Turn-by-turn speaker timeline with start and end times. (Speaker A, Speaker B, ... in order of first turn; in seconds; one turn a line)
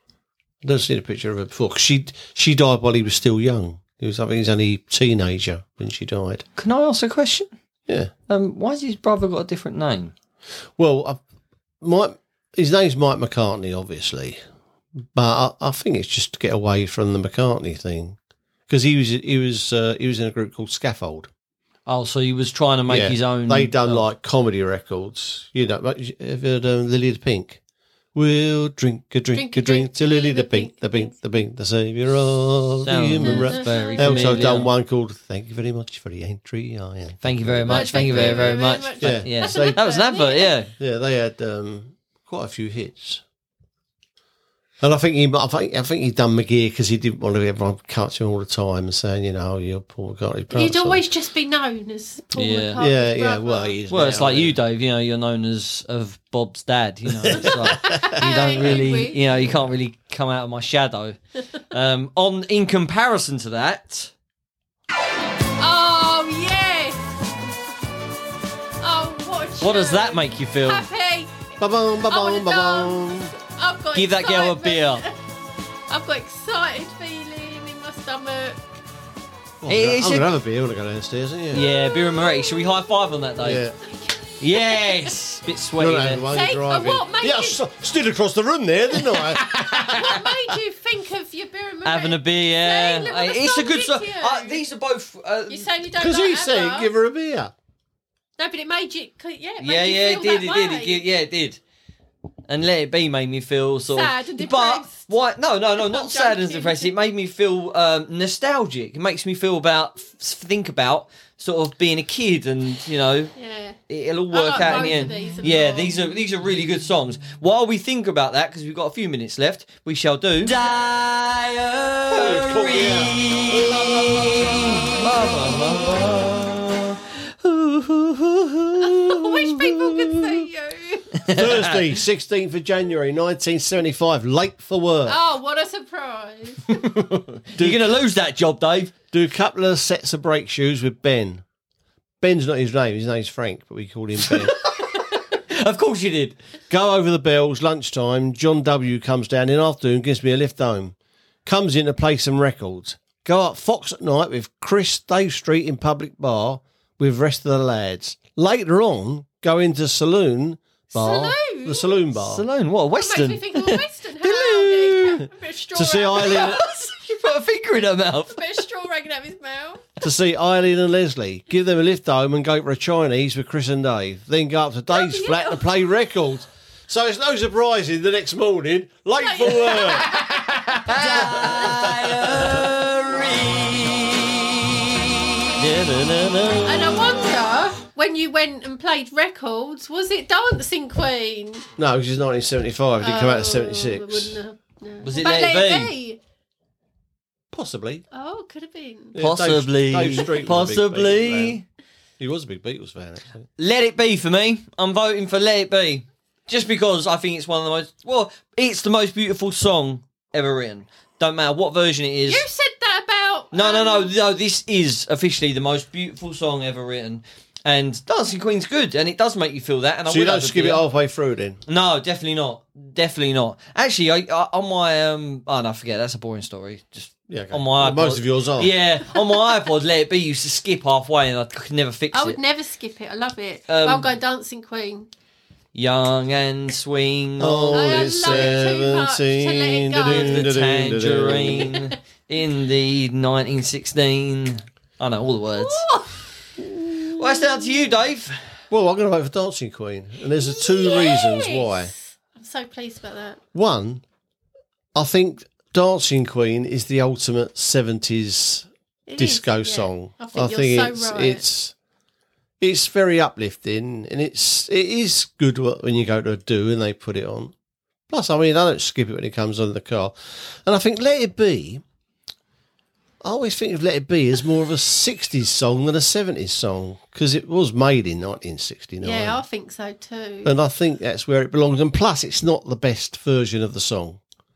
Speaker A: 0.6-6.4
Speaker B: 6.6-7.5
Speaker A: 7.9-8.1
Speaker B: 8.3-10.1
Speaker A: 10.8-11.2
Speaker A: 11.8-14.4
Speaker A: 15.1-18.2
Speaker A: 18.7-21.3
Speaker B: 21.9-24.1
Speaker A: 22.9-27.6
Speaker A: 28.1-39.8
Speaker C: 29.3-31.1
Speaker B: 32.9-34.7
Speaker C: 33.2-34.6
Speaker B: 37.2-40.7
Speaker C: 37.7-40.5
Speaker A: 40.8-43.2
Speaker A: 44.8-51.0
Speaker C: 50.5-53.8
Speaker B: 52.3-52.8
Speaker A: 52.8-54.6
Speaker B: 53.9-61.2
Speaker A: 57.1-58.2
Speaker C: 57.3-59.2
Speaker B: 61.7-64.1
Speaker C: 65.6-67.2
Speaker C: 68.8-75.2
Speaker B: 69.6-70.8
Speaker A: 71.6-73.3
Speaker B: 73.9-75.0
Speaker C: 75.9-78.6
Speaker A: 79.6-81.7
Speaker B: 79.7-80.3
Speaker B: 81.5-83.6
Speaker C: 82.3-82.5
Speaker A: 83.4-83.8
Speaker C: 83.8-85.1
Speaker B: 84.4-86.2
Speaker A: 85.8-89.6
Speaker C: 86.3-87.6
Speaker B: 89.0-90.3
Speaker C: 89.5-94.6
Speaker B: 91.8-95.7
Speaker C: 95.5-96.9
Speaker A: 96.0-97.5
Speaker C: 98.4-101.0
Speaker B: 99.6-101.6
Speaker B: 102.5-113.3
Speaker C: 103.9-105.0
Speaker C: 105.8-106.9
Speaker C: 113.3-113.8
Speaker B: 113.9-128.8
Speaker C: 114.3-116.0
Speaker A: 122.1-125.7
Speaker C: 128.8-131.2
Speaker A: 128.9-130.5
Speaker B: 131.2-131.9
Speaker A: 131.2-135.2
Speaker C: 135.1-136.7
Speaker B: 136.7-139.0
Speaker A: 137.6-137.9
Speaker A: 139.1-141.4
Speaker A: 142.2-144.6
Speaker B: 144.2-146.4
Speaker A: 146.7-162.4
Speaker C: 160.9-162.0
Speaker B: 162.2-163.8
Speaker C: 162.9-166.7
Speaker A: 164.3-166.6
Speaker B: 166.2-168.6
Speaker C: 168.3-169.9
Speaker A: 170.0-180.2
Speaker C: 174.9-175.7
Speaker C: 179.2-180.3
Speaker B: 179.9-187.2
Speaker C: 180.8-182.5
Speaker A: 180.9-182.7
Speaker C: 186.6-191.7
Speaker A: 191.8-194.4
Speaker C: 193.0-196.2
Speaker B: 195.0-195.9
Speaker A: 197.5-198.0
Speaker C: 198.1-199.2
Speaker A: 199.1-201.6
Speaker B: 199.2-201.6
Speaker A: 202.2-203.5
Speaker B: 203.6-212.4
Speaker C: 212.2-214.1
Speaker B: 213.5-220.8
Speaker A: 220.1-221.6
Speaker B: 221.7-232.4
Speaker A: 227.3-228.7
Speaker C: 232.1-235.1
Speaker B: 233.7-234.1
Speaker B: 235.7-238.6
Speaker A: 237.4-241.8
Speaker C: 237.7-240.5
Speaker B: 240.0-245.8
Speaker C: 241.6-241.9
Speaker C: 245.5-246.4
Speaker B: 246.9-248.4
Speaker A: 248.7-251.9
Speaker C: 250.2-253.4
Speaker A: 253.5-254.0
Speaker A: 254.9-258.7
Speaker C: 259.1-261.4
Speaker A: 259.2-261.7
Speaker A: 262.6-267.5
Speaker A: 268.1-271.8
Speaker A: 273.2-279.4
Speaker C: 279.0-280.5
Speaker A: 280.4-284.2